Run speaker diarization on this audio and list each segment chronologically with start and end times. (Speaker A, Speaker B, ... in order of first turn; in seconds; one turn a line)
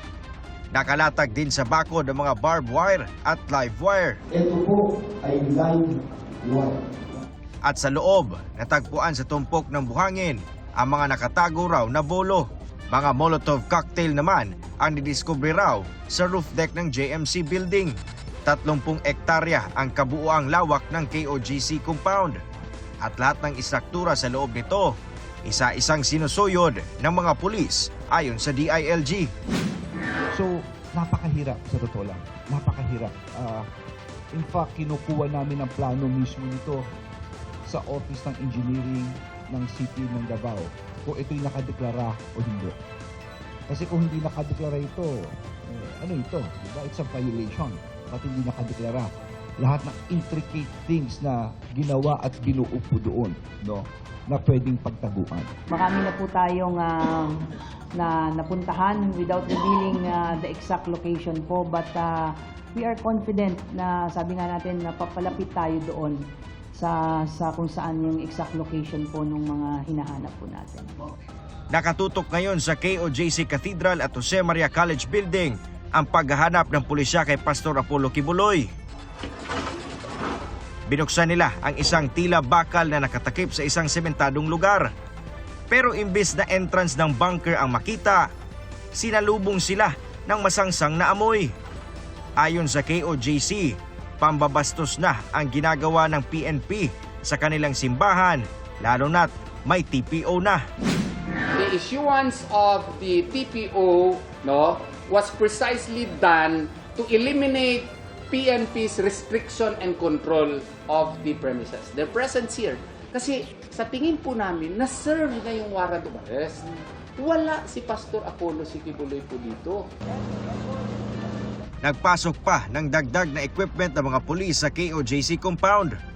Speaker A: 0.7-4.2
Speaker B: 4.3-7.0
Speaker A: 7.6-22.4
Speaker A: 23.0-29.3
Speaker B: 30.3-33.6
Speaker B: 34.3-36.8
Speaker B: 37.7-42.7
Speaker B: 43.7-45.1
Speaker B: 45.7-55.5
Speaker C: 55.7-57.3
Speaker C: 58.0-62.1
Speaker C: 62.7-66.2
Speaker C: 66.7-70.9
Speaker A: 71.7-78.7
Speaker A: 80.9-84.9
Speaker A: 85.7-88.3
Speaker A: 88.9-91.5
Speaker A: 92.4-100.6
Speaker D: 101.6-116.5
Speaker D: 117.2-119.8
Speaker A: 121.8-126.0